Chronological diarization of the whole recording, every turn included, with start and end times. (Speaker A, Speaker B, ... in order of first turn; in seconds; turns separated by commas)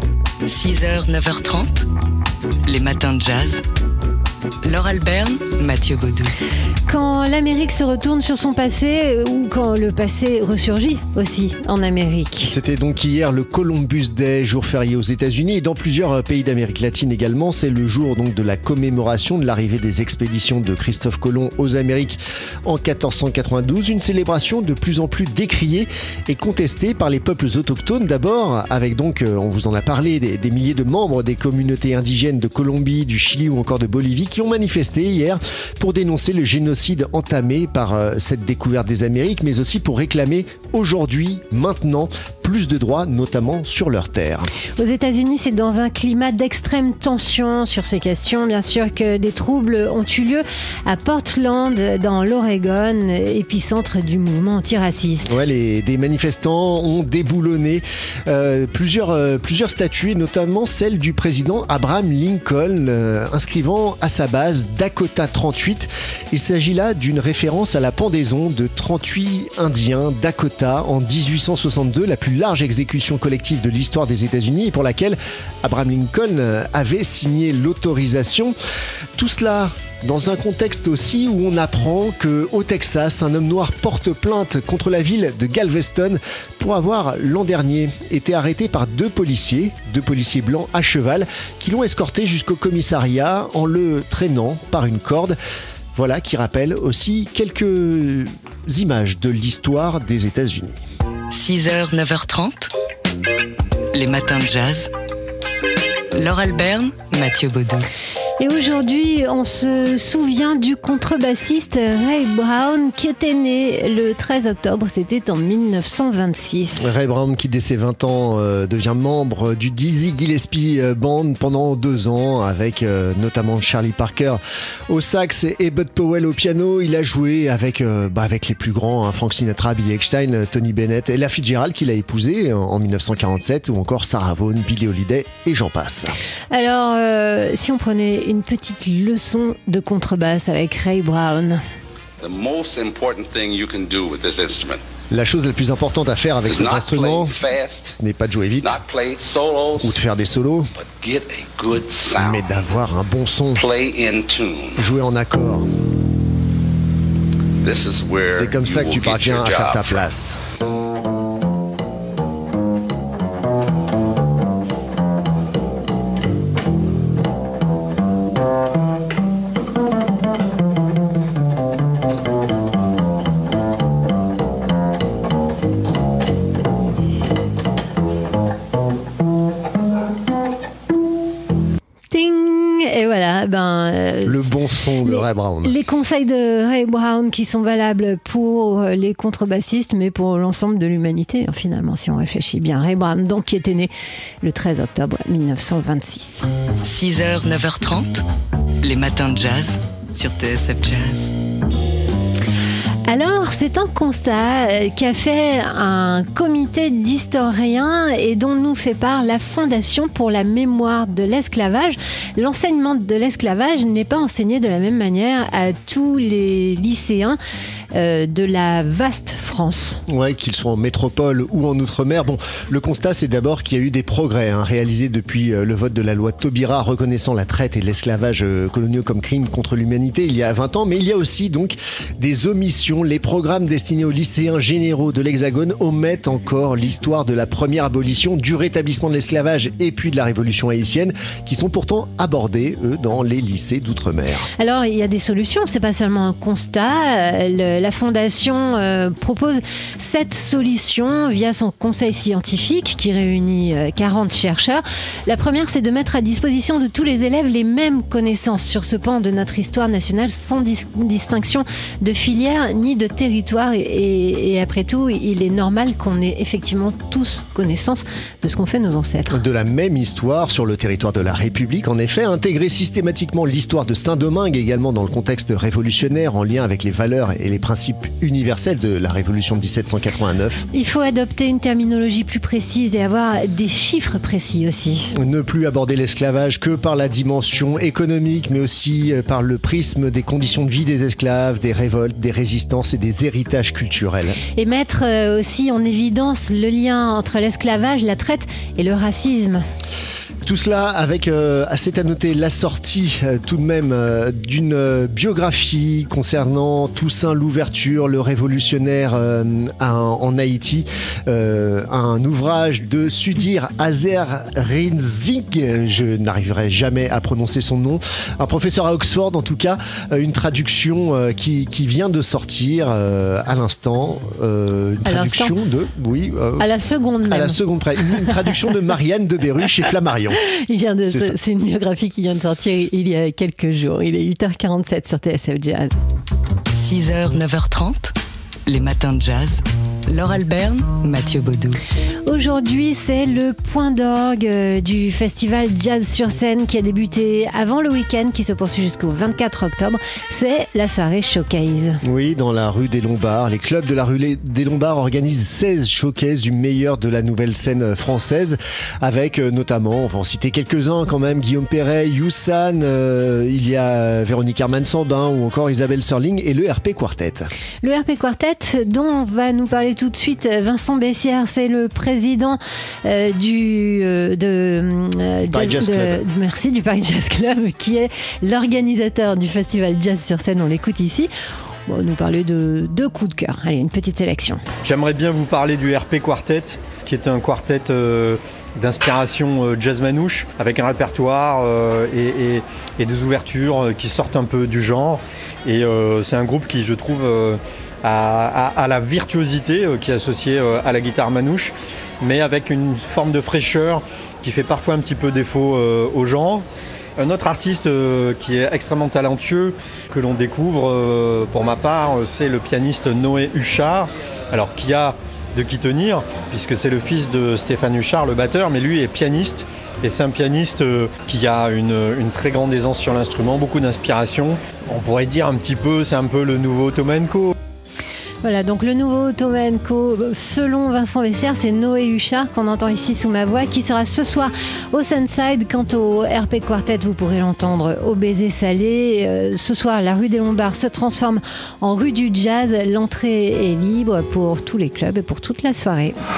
Speaker A: 0.5-1.9, Speaker A: 2.7-3.6, Speaker A: 4.6-6.3, Speaker B: 6.9-12.5, Speaker C: 12.4-44.5, Speaker B: 44.8-55.4, Speaker C: 55.2-78.5, Speaker C: 79.2-95.4, Speaker C: 96.0-100.8, Speaker A: 101.3-102.7, Speaker A: 103.9-104.9, Speaker A: 106.1-107.8, Speaker B: 108.4-116.9, Speaker C: 116.8-136.2, Speaker B: 136.5-141.6, Speaker D: 142.2-144.8, Speaker C: 145.1-148.8, Speaker D: 146.5-147.9, Speaker D: 148.6-150.0, Speaker C: 149.8-150.7, Speaker D: 150.8-152.6, Speaker C: 152.2-153.7, Speaker D: 153.5-154.8, Speaker C: 154.8-155.7, Speaker D: 157.6-160.1, Speaker C: 158.3-160.4, Speaker B: 182.1-184.5, Speaker C: 184.2-185.8, Speaker B: 185.0-193.9, Speaker B: 194.4-196.5, Speaker A: 196.8-198.2, Speaker A: 198.8-201.3, Speaker B: 203.1-217.4, Speaker B: 217.9-220.0, Speaker C: 220.1-244.5, Speaker B: 244.6-269.4, Speaker C: 269.3-280.6, Speaker B: 280.7-285.1, Speaker C: 285.2-294.4, Speaker B: 294.6-299.6, Speaker C: 300.4-326.7, Speaker B: 325.1-325.6, Speaker B: 326.6-328.7, Speaker C: 327.3-330.4, Speaker B: 330.4-335.9, Speaker C: 331.1-331.4, Speaker A: 336.7-338.1, Speaker A: 338.7-341.8, Speaker B: 342.3-352.0, Speaker C: 352.0-367.5, Speaker B: 367.8-381.3, Speaker C: 375.5-376.2, Speaker B: 381.9-384.6, Speaker E: 384.8-406.7, Speaker E: 407.2-427.5, Speaker B: 428.4-446.1